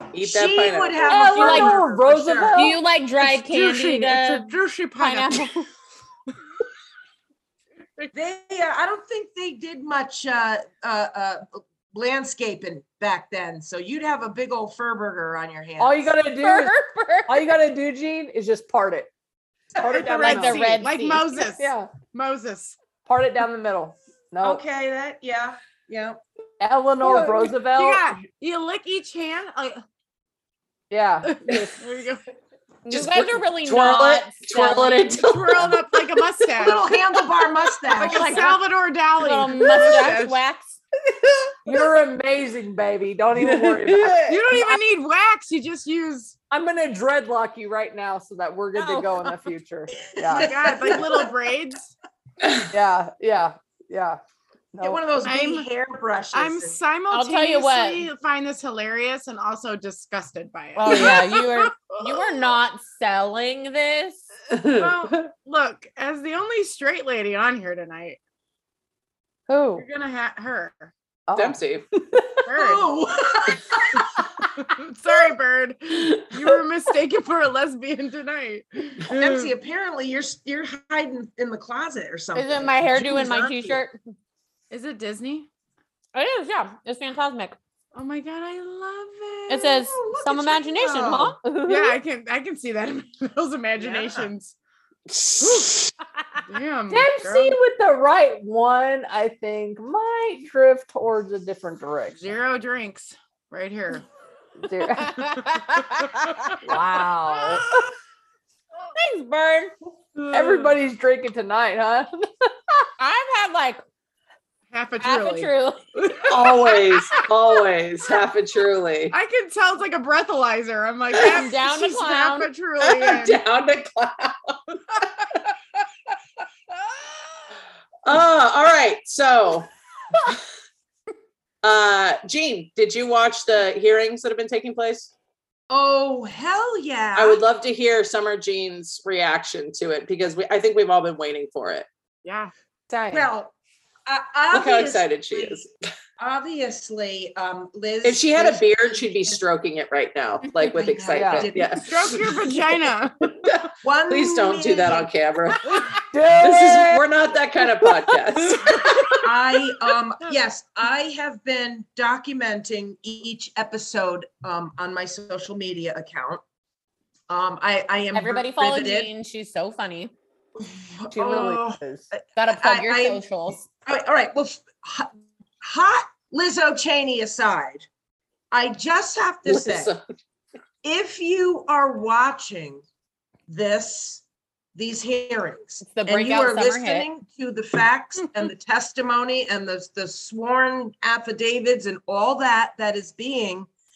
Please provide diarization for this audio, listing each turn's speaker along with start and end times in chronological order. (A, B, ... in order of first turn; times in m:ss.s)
0:00.1-0:01.2 A
0:00.2-0:02.7 B
0:01.0-0:02.8 C
0:01.2-0:01.8 D
0:02.5-0:05.7 D
0:03.2-0:05.5 E
0:08.1-0:16.1 B
0:15.8-0:16.7 C
0:16.4-0:17.5 D
0:17.3-0:19.1 C
0:19.8-0:20.1 B
0:19.8-0:20.8 C
0:19.9-0:22.8 E
0:20.2-0:21.2 D
0:21.4-0:21.9 C
0:23.1-0:24.6 C
0:24.4-0:26.2 B
0:26.6-0:28.1 C
0:27.0-0:27.5 B
0:27.7-0:29.8 E
0:30.9-0:31.8 C
0:31.3-0:32.2 E
0:32.9-0:35.2 D
0:32.9-0:36.1 A
0:35.2-0:36.9 E
0:36.6-0:38.5 B
0:38.0-0:38.6 D
0:38.0-0:40.4 E
0:39.2-0:40.8 D
0:41.6-0:44.8 C
0:43.4-0:44.4 A
0:44.3-0:46.4 E
0:46.5-0:51.0 C
0:48.8-0:49.3 D
0:50.1-0:51.3 B
0:50.3-0:51.9 E
0:52.4-0:52.7 A
0:52.7-0:54.2 C
0:54.7-0:55.0 C
0:54.8-0:56.8 B
0:55.2-0:55.7 E
0:56.3-1:02.5 E
0:57.1-0:58.1 D
1:00.8-1:04.3 D
1:04.5-1:04.9 A
1:04.8-1:08.2 E
1:09.5-1:09.8 D
1:09.8-1:10.9 E
1:11.3-1:12.5 C
1:11.3-1:11.9 A
1:12.5-1:12.9 E
1:12.6-1:14.1 B
1:14.6-1:19.5 E
1:19.1-1:23.8 B
1:22.3-1:24.0 D
1:24.7-1:25.5 E
1:26.1-1:27.6 D
1:27.9-1:29.8 E
1:29.5-1:32.0 D
1:29.9-1:31.4 B
1:31.7-1:34.6 E
1:33.8-1:34.3 B
1:35.1-1:35.9 A
1:35.4-1:35.8 E
1:36.4-1:37.6 E
1:36.9-1:42.2 C
1:42.2-1:44.1 E
1:44.6-1:45.2 C
1:45.0-1:46.6 E
1:46.6-1:47.7 D
1:47.6-1:47.9 E
1:48.9-1:49.7 D
1:50.2-1:50.7 E
1:50.3-1:52.9 C
1:53.0-1:53.8 D
1:54.7-1:57.3 E
1:55.0-1:55.8 D
1:56.3-1:59.1 A
1:59.1-2:03.4 E
2:01.2-2:02.5 D
2:02.8-2:05.5 A
2:08.0-2:09.7 A
2:11.6-2:15.1 A
2:15.7-2:17.4 B
2:17.2-2:21.9 A
2:22.2-2:22.5 E
2:22.9-2:23.3 C
2:23.1-2:23.5 B
2:24.1-2:25.6 B
2:24.5-2:25.7 A
2:26.2-2:29.4 B
2:28.0-2:32.2 A
2:30.8-2:31.8 B
2:31.2-2:31.5 C
2:31.8-2:33.4 E
2:33.4-2:38.9 A
2:33.8-2:35.1 B
2:36.1-2:37.1 C
2:37.6-2:37.9 C
2:38.6-2:39.3 C
2:39.2-2:46.4 B
2:47.3-2:49.1 B
2:48.1-2:50.1 D
2:50.6-2:53.3 B
2:51.1-2:52.1 C
2:52.4-2:53.7 D
2:53.8-2:57.9 B
2:58.5-2:59.9 B
2:59.5-3:00.0 A
3:00.8-3:02.8 B
3:03.5-3:04.2 B
3:04.8-3:13.7 B
3:05.9-3:07.1 D